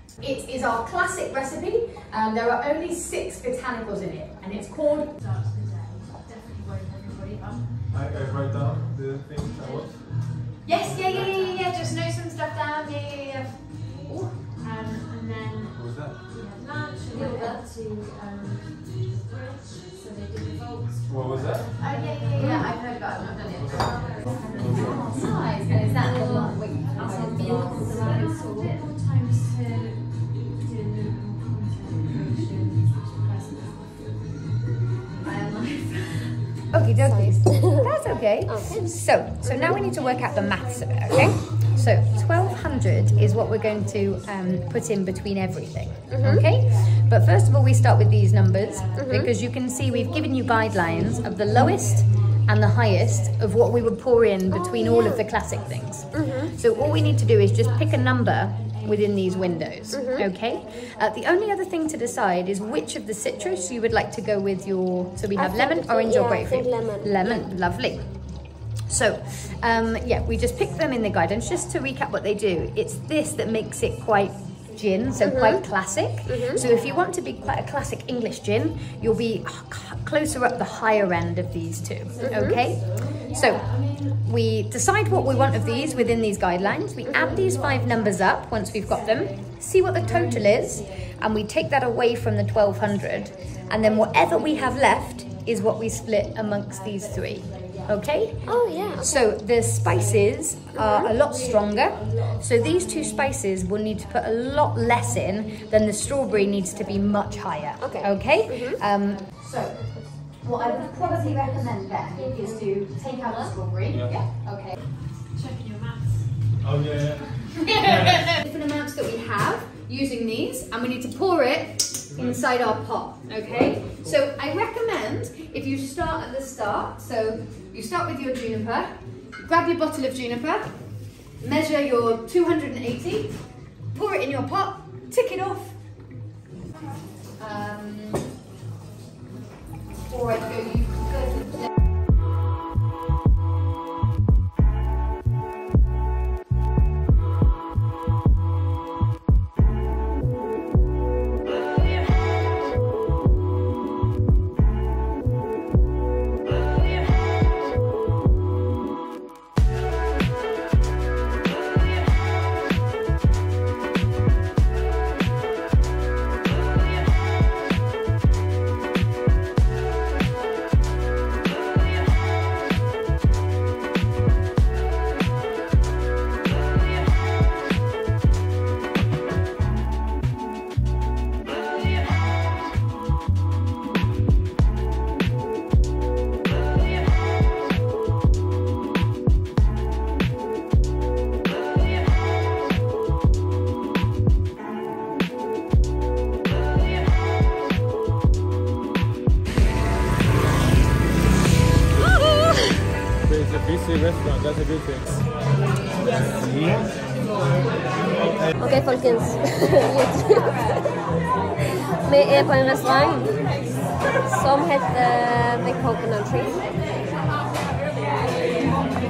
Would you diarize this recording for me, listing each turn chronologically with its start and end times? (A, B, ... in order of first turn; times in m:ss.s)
0:00.2-0:05.2 A
0:05.1-0:07.8 B
0:07.9-0:10.0 C
0:09.6-0:11.7 B
0:10.6-0:14.3 A
0:10.7-0:11.3 C
0:14.5-0:34.2 B
0:15.7-0:16.2 C
0:17.1-0:17.5 A
0:21.1-0:21.7 C
0:21.8-0:28.8 A
0:23.5-0:25.4 C
0:26.0-0:28.5 D
0:35.2-1:54.8 A
0:37.0-0:39.8 D
0:39.8-1:05.4 B
0:46.1-0:46.5 D
0:48.9-0:49.3 D
0:54.9-0:55.2 D
0:56.1-0:56.5 D
0:59.9-1:00.3 D
1:05.3-1:07.5 D
1:07.2-1:12.2 B
1:13.4-1:17.8 B
1:15.2-1:15.6 D
1:16.2-1:16.6 D
1:20.4-1:21.0 B
1:22.0-1:24.2 B
1:22.2-1:22.6 D
1:25.0-1:31.2 B
1:32.5-1:40.4 B
1:38.4-1:39.2 D
1:40.7-1:41.1 D
1:41.2-1:43.3 B
1:44.0-1:48.2 B
1:47.8-1:48.8 D
1:49.0-1:49.4 B
1:50.6-1:51.7 B
1:52.3-1:53.5 B
1:53.9-1:54.3 C
1:55.3-1:56.3 B
1:56.6-1:58.2 C
1:57.6-2:15.9 A
2:02.1-2:02.4 C
2:03.3-2:04.2 C
2:17.4-2:18.3 A
2:20.0-2:21.7 A
3:22.1-3:22.7 D
3:23.2-3:25.3 C
3:26.4-3:27.0 C
3:28.6-3:31.0 D
3:32.0-3:33.3 D
3:34.2-3:36.7 D